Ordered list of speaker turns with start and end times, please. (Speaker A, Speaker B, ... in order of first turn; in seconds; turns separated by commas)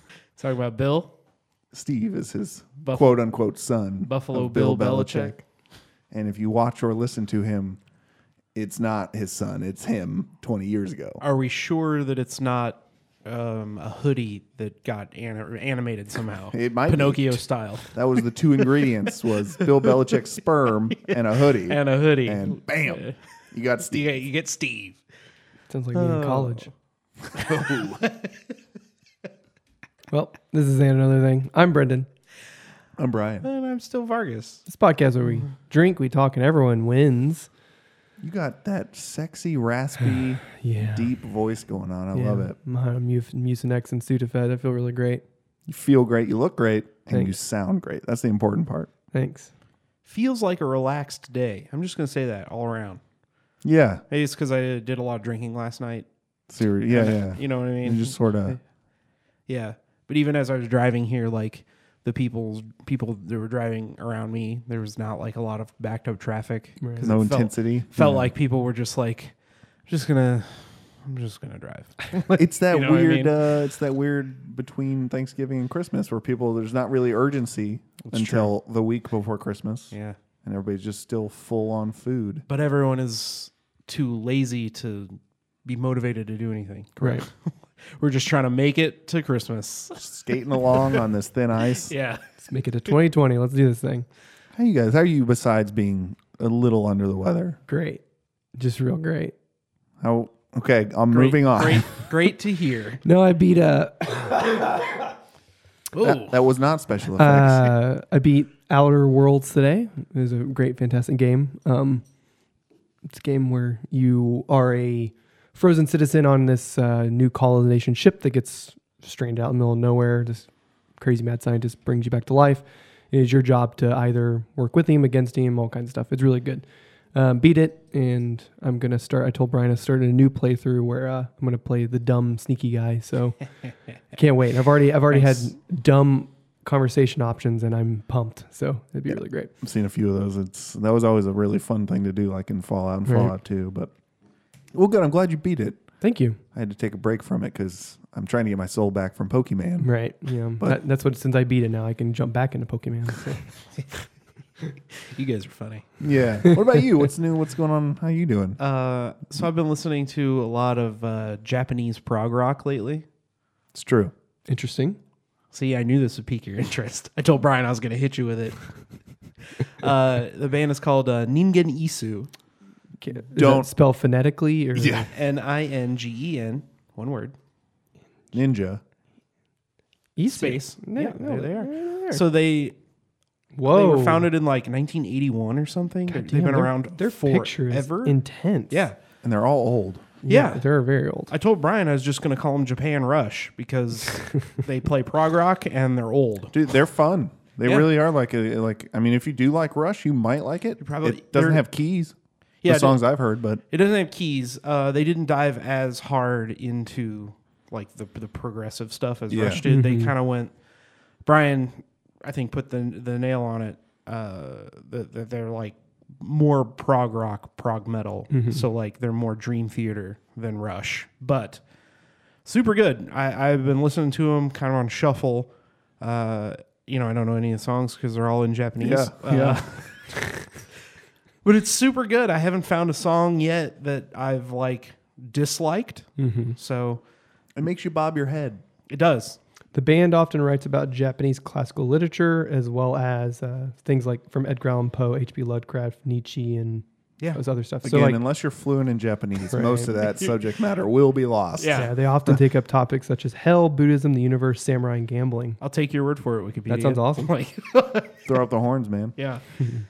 Speaker A: 0.4-1.1, Speaker B: 1.7-5.4, Speaker A: 2.8-3.2, Speaker A: 4.1-5.3, Speaker B: 6.1-7.8, Speaker B: 8.6-11.2, Speaker A: 11.2-18.0, Speaker B: 16.5-24.1, Speaker A: 18.6-18.9, Speaker A: 19.5-20.2, Speaker A: 21.0-23.2, Speaker A: 23.9-25.0, Speaker C: 25.7-26.7, Speaker A: 25.9-26.7, Speaker A: 27.3-28.3, Speaker B: 27.5-28.0, Speaker C: 30.1-32.1, Speaker B: 33.0-33.5, Speaker A: 33.4-34.6, Speaker C: 34.7-37.5, Speaker B: 38.2-42.6, Speaker C: 40.5-41.1, Speaker C: 42.1-45.2, Speaker B: 45.7-48.9, Speaker C: 49.1-49.5, Speaker A: 50.1-53.0, Speaker B: 53.6-54.0, Speaker A: 54.1-56.1, Speaker B: 56.5-58.6, Speaker A: 56.9-58.1, Speaker A: 59.5-69.3, Speaker C: 66.8-67.2, Speaker B: 67.0-68.3, Speaker A: 69.9-73.3, Speaker B: 72.4-82.5, Speaker A: 78.0-78.5, Speaker A: 82.5-90.0, Speaker C: 87.0-87.2, Speaker B: 90.0-91.9, Speaker A: 90.7-91.0, Speaker A: 91.7-92.2, Speaker C: 92.4-94.1, Speaker B: 94.6-97.6, Speaker C: 97.7-98.0, Speaker C: 98.6-99.3, Speaker B: 100.0-101.9, Speaker A: 101.1-103.0, Speaker C: 103.0-105.0, Speaker A: 105.9-106.3, Speaker B: 106.0-107.8, Speaker C: 107.2-112.0, Speaker C: 113.1-120.5, Speaker C: 121.0-133.4, Speaker C: 134.1-139.5, Speaker A: 135.1-135.5, Speaker B: 139.6-143.9, Speaker C: 143.1-143.3, Speaker B: 144.7-145.8, Speaker C: 146.0-146.4, Speaker B: 146.5-149.9, Speaker C: 149.8-153.5, Speaker A: 154.9-156.0, Speaker B: 156.0-158.6, Speaker C: 156.4-156.8, Speaker A: 158.6-163.1, Speaker B: 163.7-164.1, Speaker C: 164.5-165.0, Speaker A: 165.5-168.6, Speaker A: 169.6-172.3, Speaker C: 173.0-175.1, Speaker B: 173.4-173.7, Speaker B: 174.8-175.1, Speaker A: 175.1-177.3, Speaker B: 178.3-178.8, Speaker C: 180.2-182.2, Speaker A: 180.3-182.8, Speaker C: 183.6-184.3, Speaker A: 183.7-188.2, Speaker C: 186.1-188.9, Speaker A: 188.7-189.0, Speaker B: 189.2-190.1, Speaker C: 190.2-191.3, Speaker A: 190.3-190.7, Speaker A: 191.3-196.6, Speaker B: 196.5-202.1, Speaker A: 197.6-197.9, Speaker A: 200.8-201.6, Speaker A: 202.6-203.1, Speaker B: 202.7-203.6, Speaker A: 203.7-210.5, Speaker B: 209.3-209.6, Speaker C: 209.5-210.1, Speaker A: 211.2-221.6, Speaker C: 218.3-218.6, Speaker A: 222.4-230.6, Speaker B: 228.8-229.8, Speaker A: 231.4-237.0, Speaker C: 236.2-236.6, Speaker B: 237.6-238.6, Speaker A: 238.9-239.4, Speaker C: 239.7-248.2, Speaker B: 247.8-251.9, Speaker C: 249.5-249.9, Speaker A: 250.0-250.3, Speaker A: 251.6-251.9, Speaker C: 251.7-255.6, Speaker A: 255.6-258.3, Speaker C: 256.7-257.3, Speaker B: 258.3-259.1, Speaker A: 259.2-259.4